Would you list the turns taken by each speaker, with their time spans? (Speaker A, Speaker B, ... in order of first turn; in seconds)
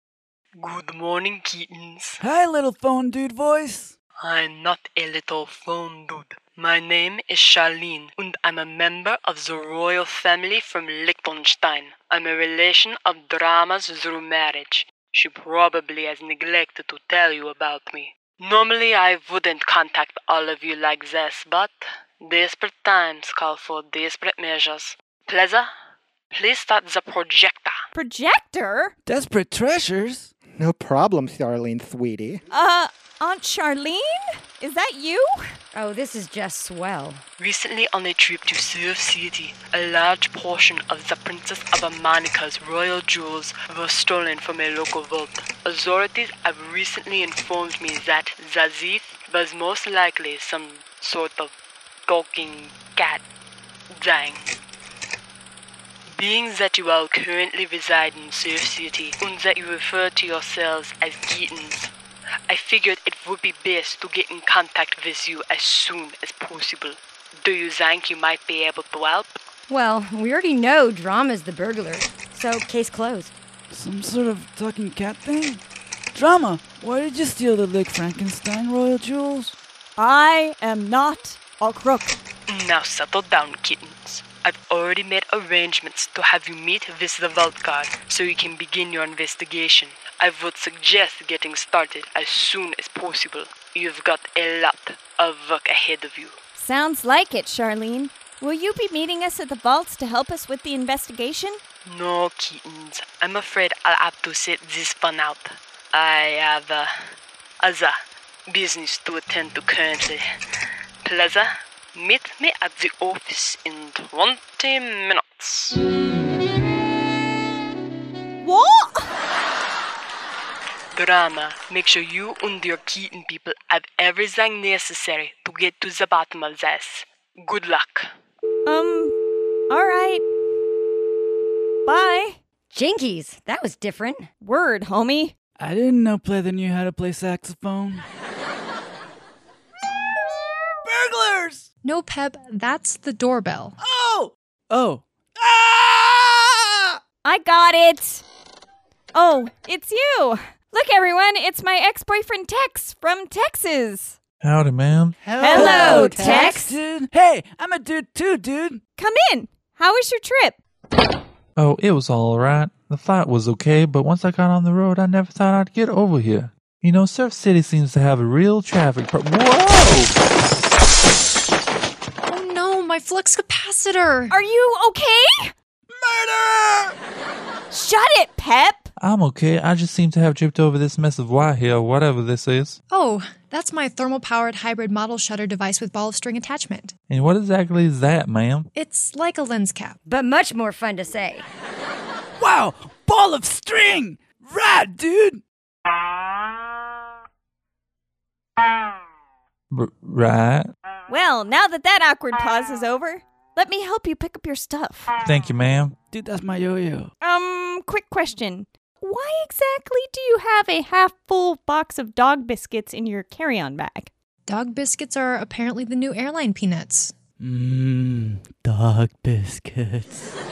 Speaker A: 0.6-2.2, 4.2-25.7, 26.3-27.8, 37.4-51.5, 52.1-53.2, 54.0-54.5, 56.1-61.9, 62.5-69.3, 82.5-96.4, 101.8-106.9, 107.6-107.9, 108.5-110.2, 111.0-115.8, 120.9-128.1
Speaker B: 2.2-3.9, 29.1-30.3, 73.7-75.6, 76.1-79.5, 135.6-138.0, 140.8-141.7, 143.8-147.0, 155.5-158.8, 175.9-176.9, 192.4-195.4, 206.1-207.1, 217.4-220.2
Speaker C: 27.9-28.9, 32.5-34.0, 34.6-35.5, 80.0-82.2, 96.6-101.6, 118.4-119.1, 128.7-129.1, 129.7-130.2, 131.8-132.4, 134.4-135.3, 147.2-148.2, 149.1-154.2, 155.4-156.8, 159.0-160.6, 174.3-175.5, 177.7-178.9, 201.1-205.1, 207.2-214.1
Speaker D: 30.6-32.4, 155.2-156.6
Speaker E: 35.7-37.2, 69.7-73.3, 132.7-134.3, 190.0-191.4
Speaker F: 141.8-143.7, 172.3-174.3, 182.9-186.9, 188.7-190.0, 214.5-217.1
Speaker G: 154.4-155.2, 161.6-170.1, 179.0-182.8, 187.1-188.7, 199.7-200.7, 205.2-205.9